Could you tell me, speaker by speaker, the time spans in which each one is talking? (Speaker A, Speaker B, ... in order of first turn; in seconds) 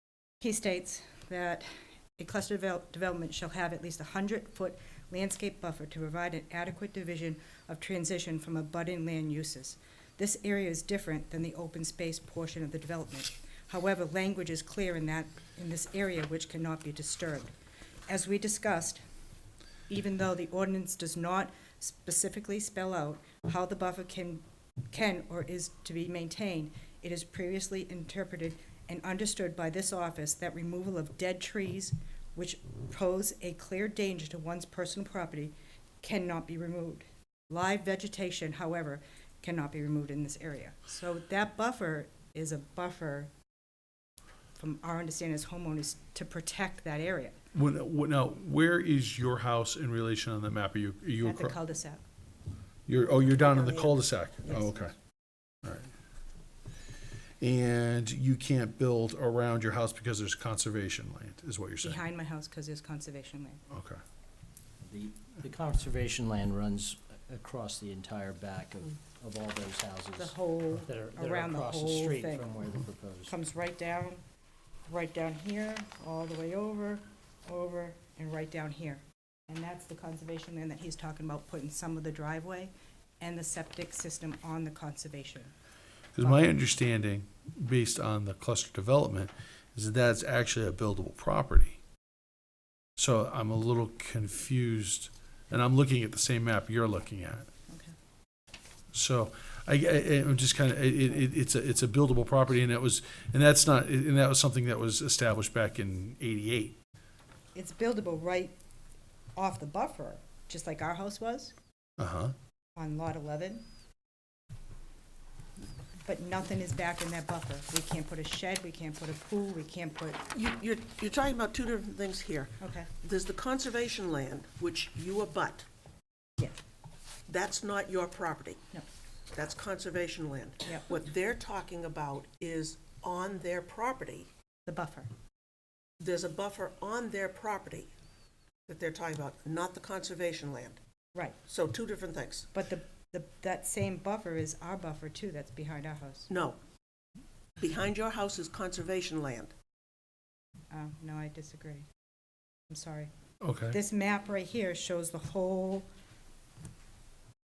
Speaker A: 0.4-17.5, 18.1-19.0, 19.9-43.3, 44.6-47.4, 51.2-52.0, 53.3-54.9, 61.8-63.6, 70.2-72.5, 73.3-74.2, 74.9-85.5, 86.2-86.5, 107.5-108.5, 109.3-111.5, 112.8-113.6, 116.0-120.2, 122.6-122.9, 134.7-135.1, 142.5-146.3, 150.7-151.9, 152.7-153.1, 153.7-155.9
Speaker B: 47.5-51.6, 52.9-54.9, 55.6-55.9, 57.4-62.0, 63.7-64.0, 86.2-91.8, 93.0-97.5, 98.9-106.8, 112.0-112.3, 153.4-153.8
Speaker C: 64.8-73.3
Speaker D: 120.3-125.7, 127.3-128.6, 129.3-134.3, 136.0-137.9, 138.7-140.8, 141.5-142.5, 146.3-146.6, 147.6-149.5